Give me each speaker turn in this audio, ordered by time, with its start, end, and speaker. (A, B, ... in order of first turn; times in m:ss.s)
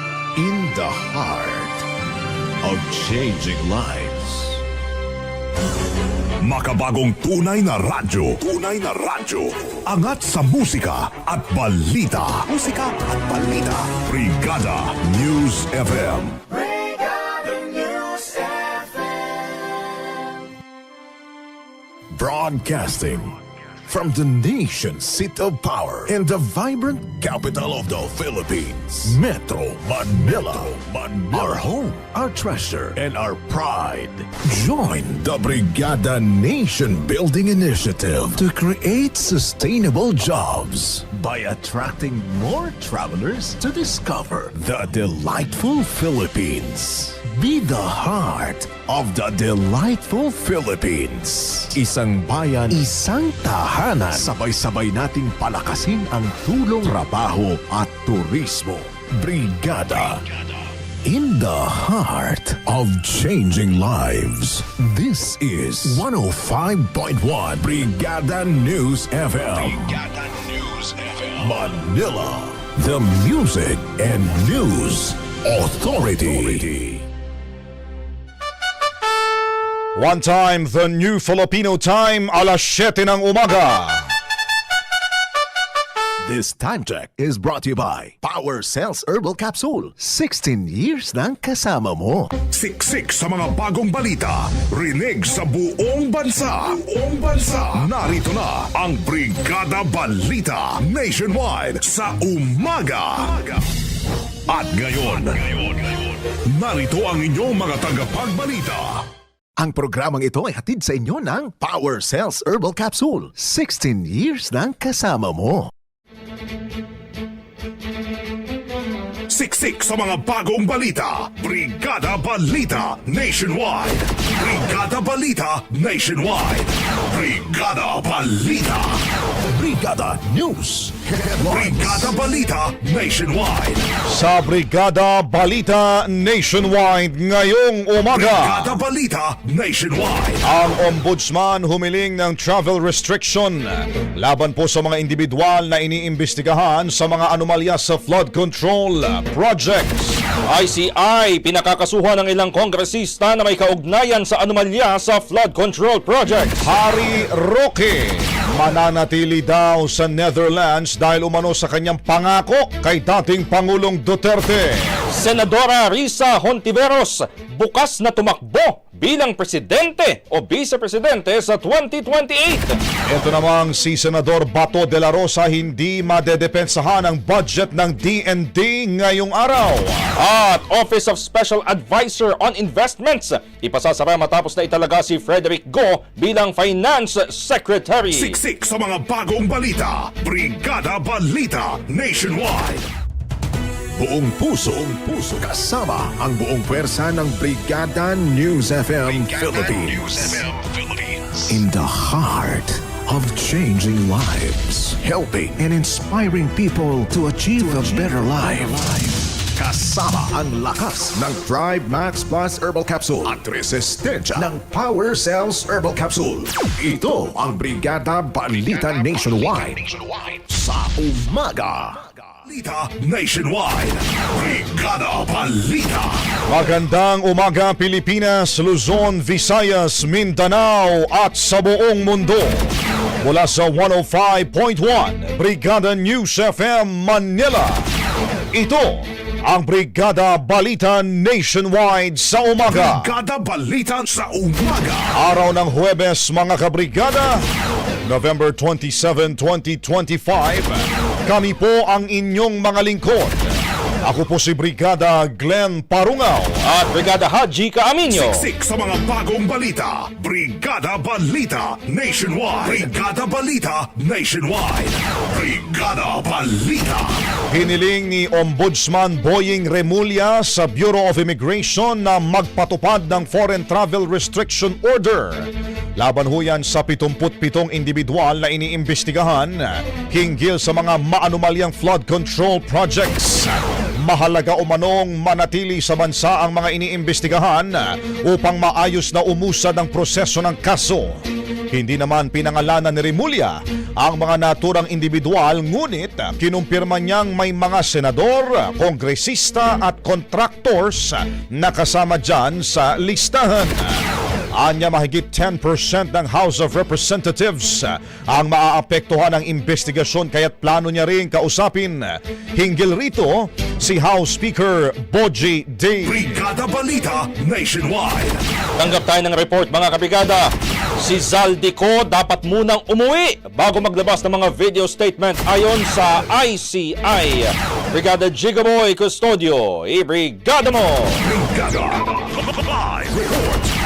0:00.4-0:01.8 A
0:02.6-0:04.6 A
0:06.4-0:16.4 B
0:22.1-0:23.3 A
0:23.9-1:00.2 A
1:01.0-1:17.0 A
1:20.0-1:24.1 C
1:26.2-1:32.3 A
1:32.5-1:43.6 B
1:44.5-1:46.0 B
1:46.5-1:49.0 B
1:49.6-1:55.7 A
1:59.3-2:09.0 B
2:09.5-2:12.1 A
2:11.4-2:13.8 B
2:14.1-2:18.8 C
2:18.1-2:20.4 B
2:20.4-2:30.2 C
2:30.5-2:36.7 D
2:36.6-2:44.9 C
2:45.1-2:52.8 D
2:53.1-3:00.1 C
3:00.2-3:08.4 D
3:08.1-3:12.8 B
3:14.0-3:42.1 A
3:42.5-3:46.2 B
3:46.5-3:52.7 C
3:53.2-3:57.8 C
3:58.5-4:03.1 C
4:02.6-4:05.1 B
4:05.1-4:07.4 C
4:08.0-4:13.5 C
4:14.0-4:16.6 C
4:16.6-4:18.4 D
4:18.1-4:27.2 B
4:27.5-5:04.0 C
5:04.5-5:16.2 C
5:16.0-5:18.4 B
5:18.8-5:31.2 D
5:31.2-5:33.7 B